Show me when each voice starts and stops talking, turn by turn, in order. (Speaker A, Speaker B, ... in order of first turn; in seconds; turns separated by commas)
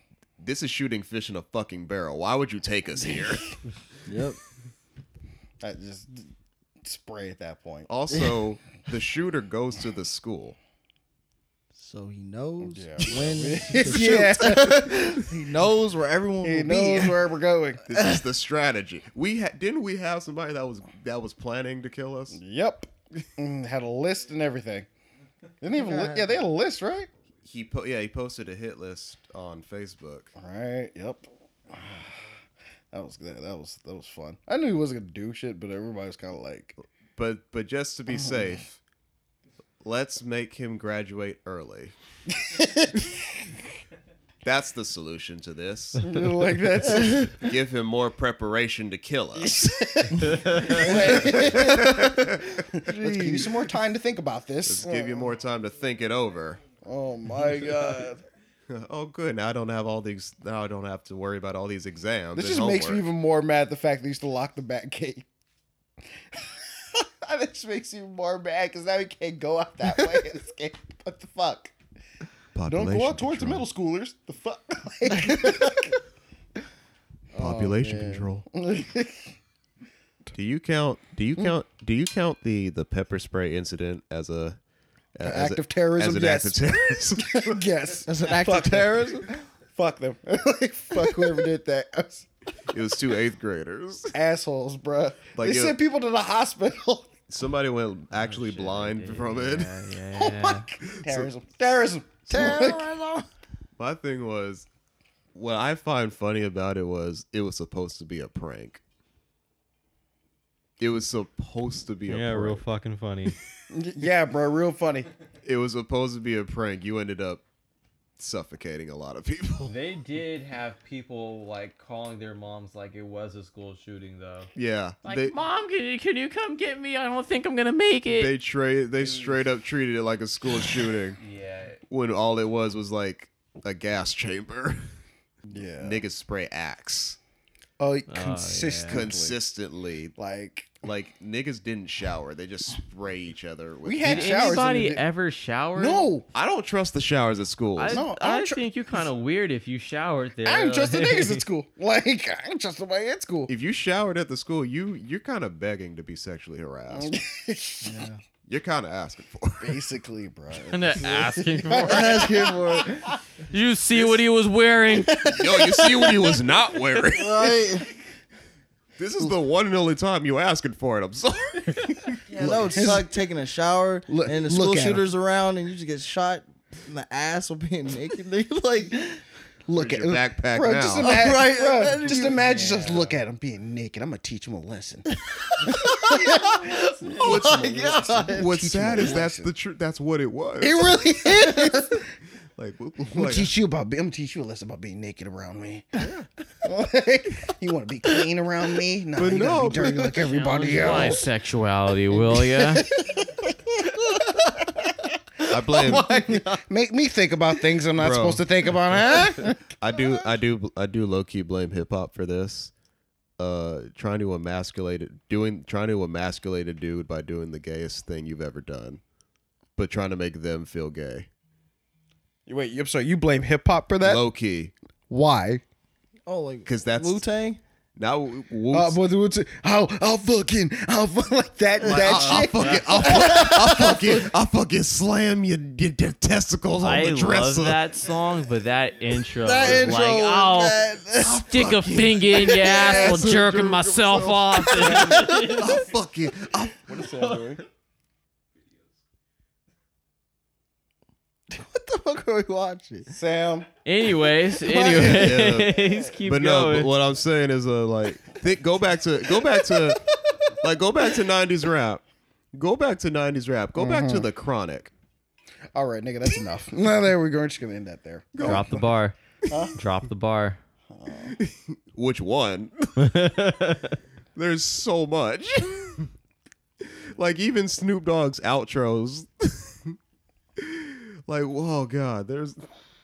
Speaker A: 0.4-3.5, Speaker B: 4.0-4.4, Speaker C: 5.6-6.3, Speaker C: 6.8-7.9, Speaker A: 7.9-10.6, Speaker B: 11.7-17.3, Speaker C: 12.6-15.3, Speaker A: 13.9-14.3, Speaker C: 16.4-17.8, Speaker A: 17.9-22.4, Speaker B: 17.9-18.2, Speaker C: 22.3-24.9, Speaker C: 25.6-27.1, Speaker B: 25.7-26.4, Speaker A: 27.4-30.3, Speaker C: 30.4-32.1, Speaker C: 32.9-36.7, Speaker A: 37.1-38.8, Speaker C: 38.1-38.5, Speaker A: 39.8-41.9, Speaker C: 42.4-42.9, Speaker A: 44.4-46.2, Speaker C: 46.0-47.5, Speaker A: 46.8-53.5, Speaker C: 49.4-55.3, Speaker D: 50.2-50.8, Speaker B: 50.9-51.7, Speaker B: 52.8-53.5, Speaker A: 54.6-56.6, Speaker C: 56.8-58.2, Speaker A: 58.7-63.0, Speaker C: 62.3-65.2, Speaker C: 66.3-71.7, Speaker A: 72.5-73.7, Speaker C: 72.7-76.0, Speaker B: 77.3-78.3, Speaker A: 77.3-78.5, Speaker C: 78.5-79.3, Speaker A: 80.3-84.6, Speaker A: 85.2-87.6, Speaker C: 85.2-92.3, Speaker B: 88.0-89.3, Speaker A: 92.7-94.1, Speaker C: 94.1-97.1, Speaker A: 95.3-95.8, Speaker A: 97.3-99.7, Speaker D: 98.1-100.7, Speaker C: 100.1-102.9, Speaker A: 100.9-101.3, Speaker A: 102.3-102.7, Speaker B: 102.3-103.3, Speaker A: 103.8-104.7, Speaker A: 105.3-108.8, Speaker A: 110.8-112.6, Speaker D: 112.1-113.3, Speaker C: 113.7-115.1, Speaker A: 115.4-117.4, Speaker A: 118.2-119.7, Speaker D: 119.7-124.5, Speaker A: 124.5-125.3, Speaker D: 125.0-128.3, Speaker A: 128.1-131.2, Speaker D: 129.0-129.4, Speaker D: 131.2-131.8, Speaker A: 131.9-134.8, Speaker C: 135.5-136.0, Speaker A: 135.8-137.2, Speaker C: 137.8-139.4, Speaker D: 138.1-139.0, Speaker A: 138.9-140.1, Speaker C: 140.2-140.8, Speaker A: 140.8-144.6, Speaker C: 143.8-145.0, Speaker D: 144.0-146.1, Speaker C: 145.7-146.3, Speaker A: 146.3-148.0, Speaker D: 147.8-151.4, Speaker C: 147.9-148.6, Speaker C: 150.4-153.5, Speaker A: 153.5-157.1, Speaker C: 156.9-158.0, Speaker B: 157.8-158.2, Speaker A: 158.5-159.8, Speaker C: 159.6-162.9, Speaker D: 160.7-162.3, Speaker B: 161.7-163.1, Speaker D: 163.5-165.2, Speaker C: 165.3-165.6, Speaker A: 165.3-167.8, Speaker B: 167.1-167.9, Speaker A: 169.0-172.6, Speaker B: 172.3-179.2, Speaker C: 172.4-173.1, Speaker C: 174.1-175.1, Speaker C: 179.7-189.5, Speaker A: 179.7-181.3, Speaker B: 180.9-183.2, Speaker B: 185.3-189.0, Speaker A: 187.2-191.7, Speaker C: 190.6-192.1, Speaker A: 192.6-193.5, Speaker C: 193.1-196.0, Speaker A: 196.0-196.3, Speaker C: 196.6-201.3, Speaker A: 199.2-201.2, Speaker D: 200.2-202.8, Speaker C: 202.3-203.3, Speaker C: 204.1-204.4, Speaker C: 205.4-209.7, Speaker A: 205.5-206.5, Speaker A: 207.9-209.0, Speaker A: 209.8-212.7, Speaker A: 213.4-219.0, Speaker A: 219.8-221.3, Speaker C: 222.5-224.2, Speaker A: 224.0-224.7, Speaker C: 225.1-225.6, Speaker B: 226.2-227.6, Speaker A: 226.7-227.2, Speaker A: 228.0-229.0, Speaker C: 228.7-234.2, Speaker B: 231.8-232.3, Speaker A: 231.8-237.8, Speaker D: 232.1-232.8, Speaker B: 232.9-234.0, Speaker D: 236.8-245.8, Speaker B: 239.3-241.7, Speaker A: 241.2-246.9, Speaker B: 242.6-243.1, Speaker C: 242.7-243.1, Speaker B: 244.8-245.5, Speaker C: 244.8-245.2, Speaker C: 246.9-247.6, Speaker D: 247.2-247.5, Speaker B: 251.5-253.1, Speaker C: 253.1-253.7, Speaker D: 253.8-256.9, Speaker A: 254.8-260.0, Speaker C: 254.8-255.2, Speaker A: 260.6-264.9, Speaker C: 263.7-264.3, Speaker C: 265.7-268.8, Speaker A: 268.3-268.8, Speaker D: 268.4-269.1, Speaker C: 269.5-269.7, Speaker D: 269.7-270.6, Speaker C: 270.9-271.4, Speaker A: 271.4-273.2, Speaker D: 273.0-274.0, Speaker A: 274.4-276.1, Speaker A: 277.1-279.9, Speaker A: 280.6-282.6